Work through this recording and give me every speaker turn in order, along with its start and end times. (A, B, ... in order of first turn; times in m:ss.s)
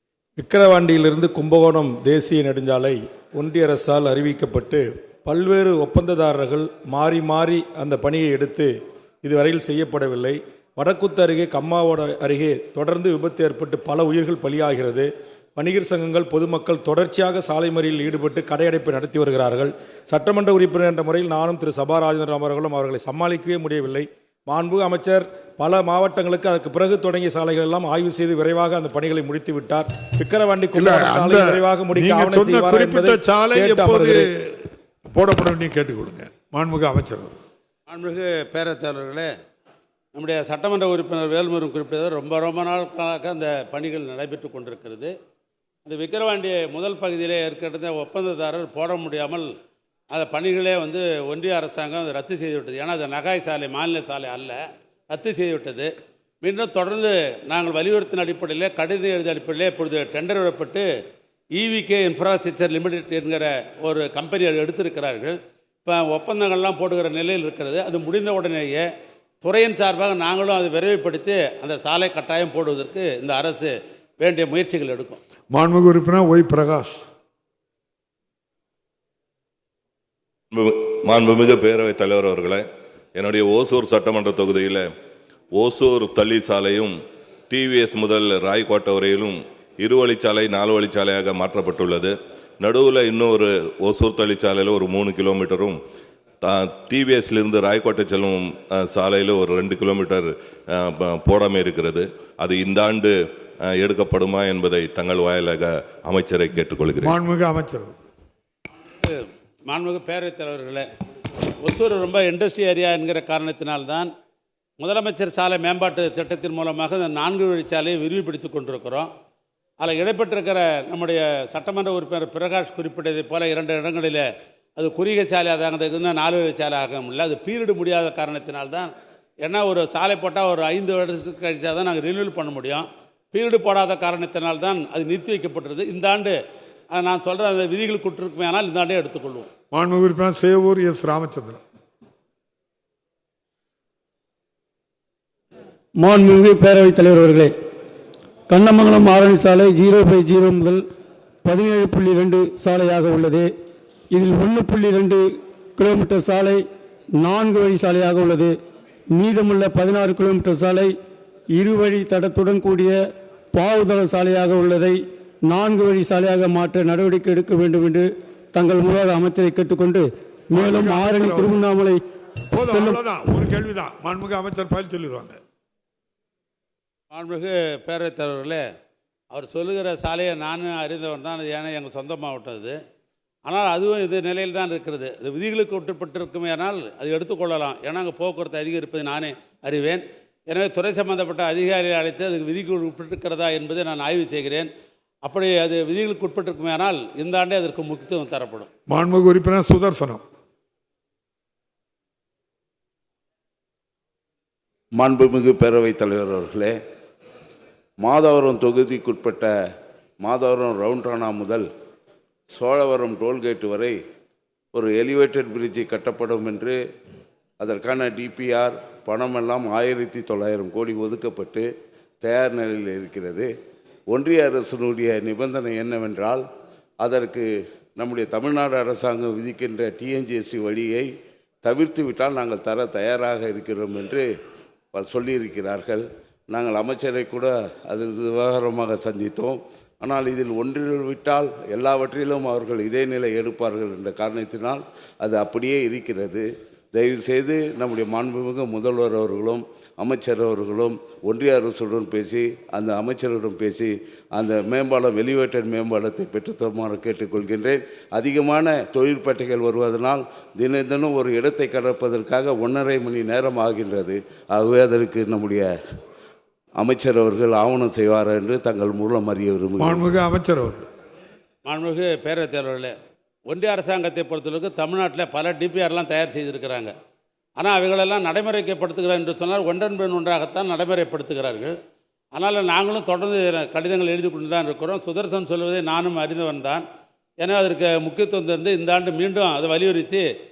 0:00.4-0:34.3 A
0:30.8-0:37.4 B
0:37.9-0:39.3 C
0:40.2-0:45.1 C
0:45.9-0:49.5 C
0:50.1-0:54.6 C
0:55.1-0:55.9 C
0:56.4-1:00.8 C
1:01.6-1:08.9 C
1:09.4-1:15.2 C
1:15.5-1:17.0 B
1:20.5-1:24.9 D
1:25.5-1:27.0 D
1:27.5-1:35.8 D
1:36.4-1:47.2 D
1:47.0-1:48.0 B
1:49.0-1:50.9 C
1:51.6-1:54.1 C
1:54.8-1:59.1 C
1:59.8-2:04.2 C
2:04.8-2:08.9 C
2:09.5-2:16.4 C
2:16.9-2:19.5 C
2:19.7-2:21.6 B
2:26.0-2:27.5 E
2:28.5-2:30.8 E
2:31.4-2:33.5 E
2:34.1-2:36.6 E
2:37.2-2:38.6 E
2:39.1-2:40.9 E
2:41.6-2:43.0 E
2:43.5-2:52.0 E
2:50.6-2:51.6 B
2:52.5-2:55.4 B
2:52.7-2:53.0 E
2:57.1-2:58.6 C
2:59.3-3:02.8 C
3:03.5-3:14.7 C
3:15.2-3:18.7 C
3:18.9-3:20.2 B
3:24.9-3:26.8 F
3:28.0-3:29.5 F
3:30.2-3:31.7 F
3:32.5-3:34.0 F
3:34.7-3:36.8 F
3:37.6-3:41.7 F
3:42.2-3:43.5 F
3:44.1-3:46.4 F
3:47.0-3:51.1 F
3:51.6-3:54.3 F
3:54.9-4:25.7 F
4:26.8-4:30.2 F
4:29.8-4:30.9 B
4:31.7-4:32.9 C
4:33.5-4:36.9 C
4:37.6-4:41.8 C
4:42.4-4:46.8 C
4:47.4-4:50.2 C